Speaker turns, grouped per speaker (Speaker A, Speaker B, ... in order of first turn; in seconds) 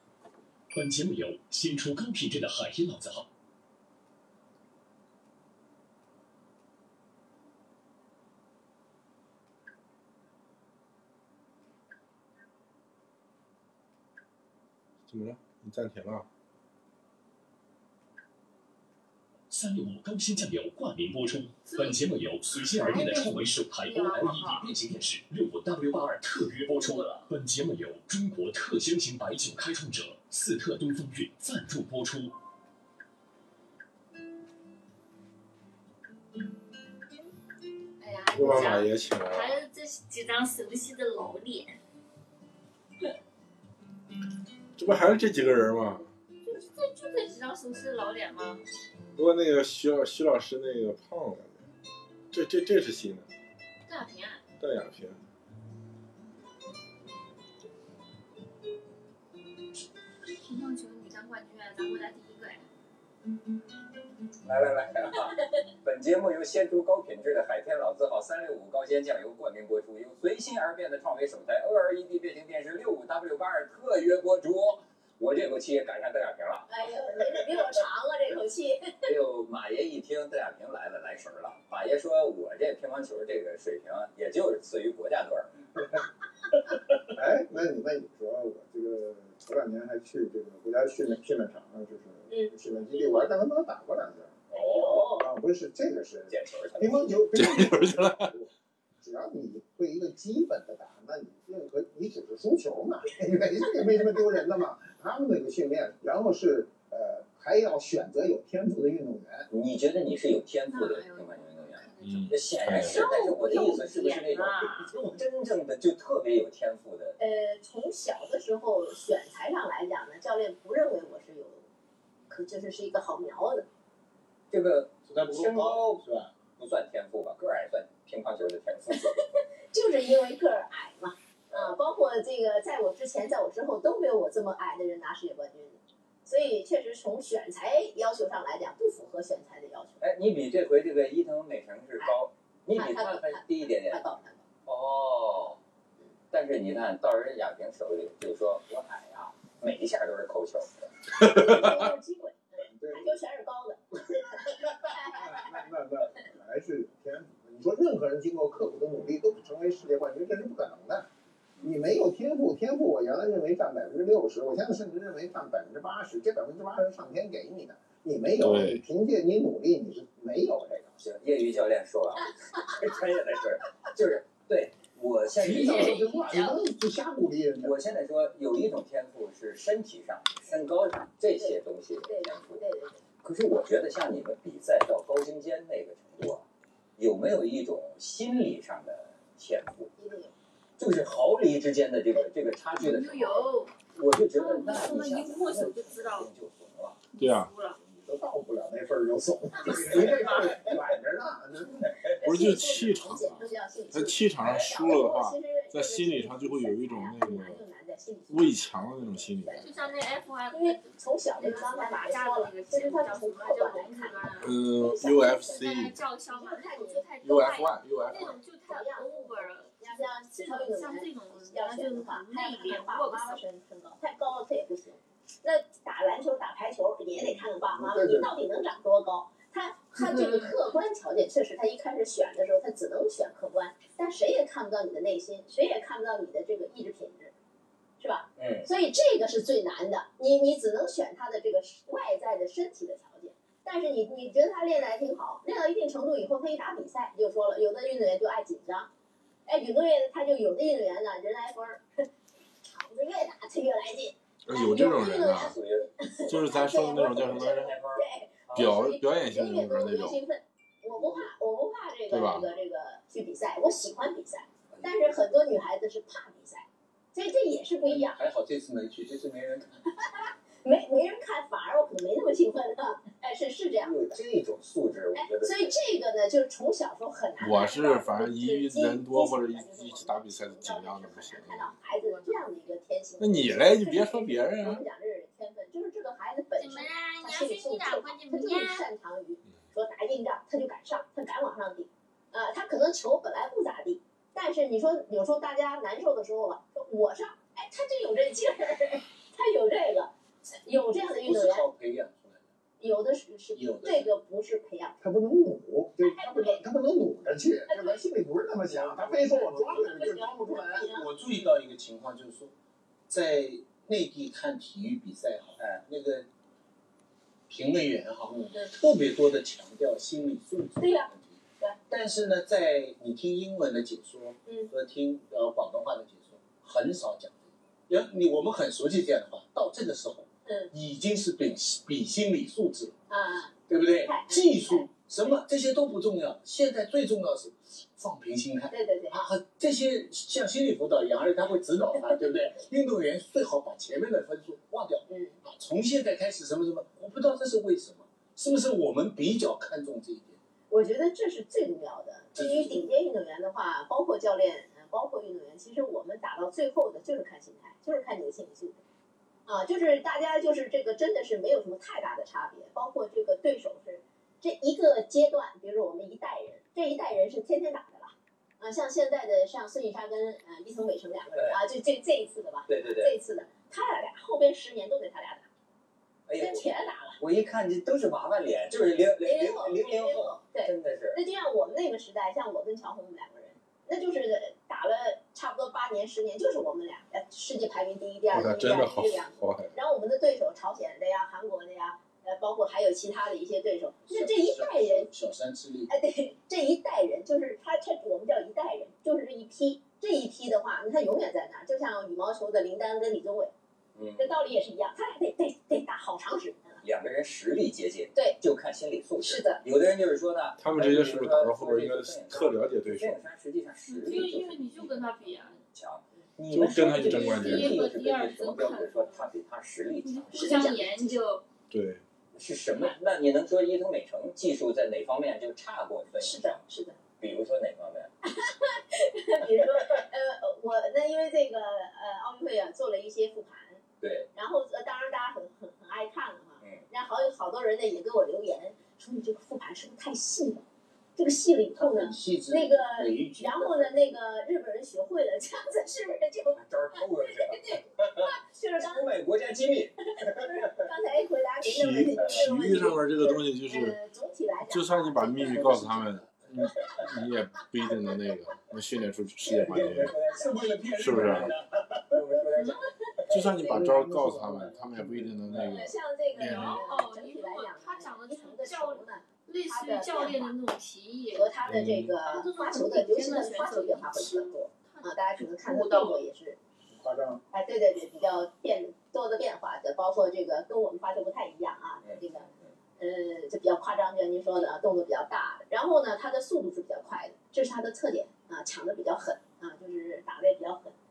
Speaker A: 0.7-3.3, 19.5-32.4
Speaker B: 15.1-16.3, 38.3-39.6, 44.8-46.1, 49.2-51.6, 52.3-53.3, 54.6-55.2, 97.3-98.3, 112.0-113.0, 151.2-151.8, 168.4-168.8, 197.2-197.5, 202.2-207.6, 208.3-209.7, 214.4-216.0, 217.2-218.4, 254.5-255.6, 256.3-257.7, 258.5-260.2, 262.1-262.5, 277.4-281.8, 283.2-284.8, 388.3-389.8, 410.6-413.2, 416.5-417.9, 421.7-422.0, 451.6-454.0, 454.7-460.2, 461.0-461.6, 463.3-466.8, 471.6-472.2
Speaker C: 21.6-22.0, 22.7-24.7, 26.7-27.3, 38.0-41.8, 46.5-48.6, 53.9-54.5, 60.4-62.7, 110.7-114.9, 175.5-176.6, 192.8-193.8, 194.3-196.3, 197.1-197.8, 209.6-214.6, 215.5-219.8, 220.4-223.4, 281.9-282.5, 286.6-288.9, 413.9-415.6, 416.9-419.3, 420.0-421.4, 466.4-471.6, 472.2-476.2
Speaker D: 64.4-76.7, 79.0-85.5, 94.5-95.2, 96.3-97.1, 109.5-117.2, 124.5-126.0, 126.6-129.1, 140.0-144.0, 144.7-145.6, 146.3-150.9, 170.8-176.1, 177.6-182.7, 183.2-186.5, 187.0-189.9, 190.8-197.0, 199.6-201.0, 201.8-202.2, 238.4-238.7, 255.3-255.9, 257.2-258.8, 261.0-261.3, 264.7-265.1, 273.8-275.7, 315.6-315.8, 371.4-371.6, 372.7-373.1, 376.3-376.7, 377.2-381.2, 403.9-404.4, 406.8-420.8, 422.4-426.6, 427.2-428.1, 434.0-434.3, 436.6-436.9, 446.5-450.5, 459.4-463.8, 482.0-482.7
Speaker E: 76.7-79.1, 92.3-93.3, 94.5-95.3, 117.2-121.7, 122.3-123.7, 128.9-140.0, 142.8-144.4, 151.2-153.8, 154.4-155.5, 181.3-183.0, 190.0-190.3, 202.2-210.0, 210.5-215.7, 216.3-217.1, 218.1-237.3, 238.0-248.9, 249.5-252.1, 252.6-268.2, 270.0-274.2, 275.1-301.7, 302.8-305.0, 306.0-306.6, 307.7-308.0, 309.1-311.1, 320.8-321.8, 324.5-324.7, 330.4-330.7, 333.1-335.4, 338.7-339.2, 345.1-345.4, 350.7-358.8, 359.5-375.5, 376.4-377.2, 379.2-395.1, 395.9-403.5, 404.2-406.8, 409.2-409.6, 420.3-421.2, 426.2-427.0, 428.2-433.8, 434.3-449.2, 450.1-455.8, 465.7-470.6, 471.3-476.6, 477.5-490.9
Speaker F: 87.1-94.5, 95.1-109.5, 152.7-153.1, 155.0-161.1, 161.6-170.9, 175.3-177.9, 197.8-201.9, 227.2-228.4, 305.0-311.1, 463.6-465.6, 476.9-477.4
Speaker G: 125.1-126.3, 267.9-269.8, 301.2-302.5, 303.5-304.1, 308.7-309.2, 310.8-312.5, 313.1-316.3, 317.5-332.9, 333.7-350.4, 352.4-352.9, 394.1-395.9, 441.8-444.1, 455.4-456.3, 459.7-461.6